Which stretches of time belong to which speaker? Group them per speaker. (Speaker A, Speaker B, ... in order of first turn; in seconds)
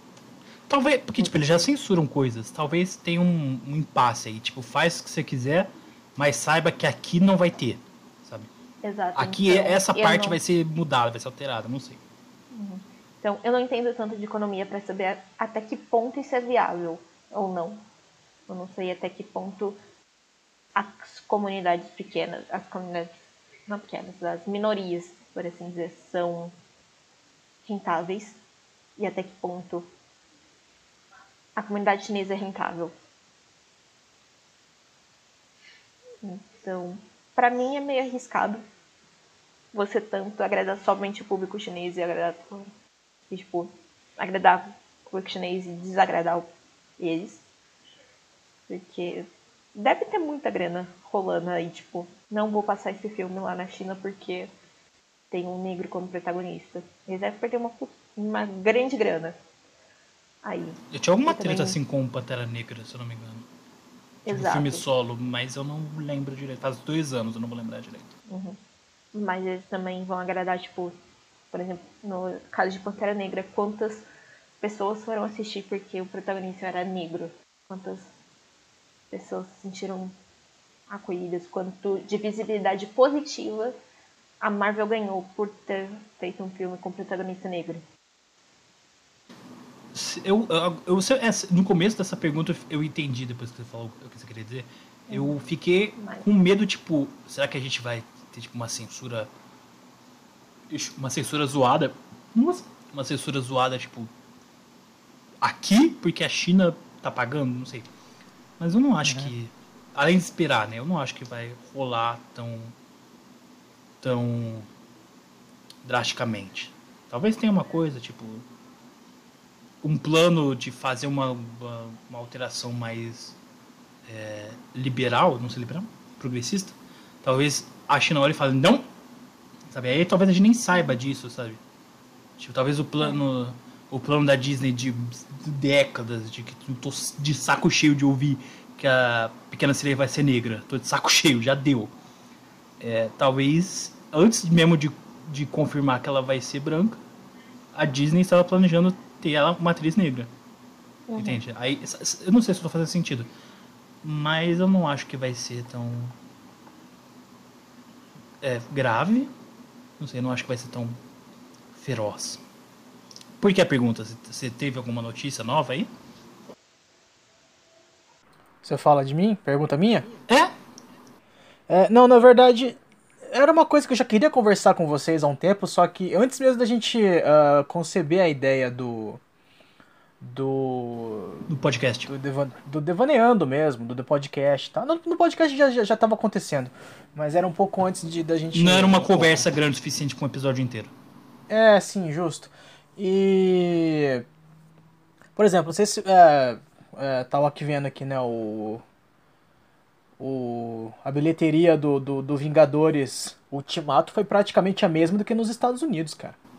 Speaker A: 0.7-8.5, 9.2-12.0, 60.9-63.5, 64.3-68.1, 89.9-99.3, 100.7-104.1, 105.4-107.9, 108.6-112.7, 114.0-114.7, 115.8-118.5, 119.8-123.4, 124.1-128.8, 129.7-131.6, 132.4-141.9, 142.8-147.0, 147.7-150.3, 151.2-153.3, 154.0-156.2, 158.4-159.3, 160.0-161.0, 161.7-162.4, 163.4-165.9, 181.5-182.1, 188.5-190.9
Speaker B: 1.2-1.7, 8.8-10.4, 12.5-17.8, 18.5-19.8, 20.8-23.1, 23.7-26.5, 27.6-28.4, 29.0-29.9, 31.6-32.9, 36.2-38.6, 39.7-42.7, 43.3-46.5, 47.0-47.4, 48.7-54.5, 55.3-59.4, 60.4-61.8, 64.2-64.9, 68.3-68.6, 69.1-70.9, 71.5-74.0, 74.6-78.1, 79.1-80.1, 80.9-83.8, 84.4-87.8, 95.1-95.4, 96.0-96.3, 151.1-151.4
Speaker C: 109.0-109.3, 168.6-170.1, 171.7-179.2, 180.2-181.5, 182.1-189.5, 191.5-194.2, 195.4-198.8, 200.2-206.4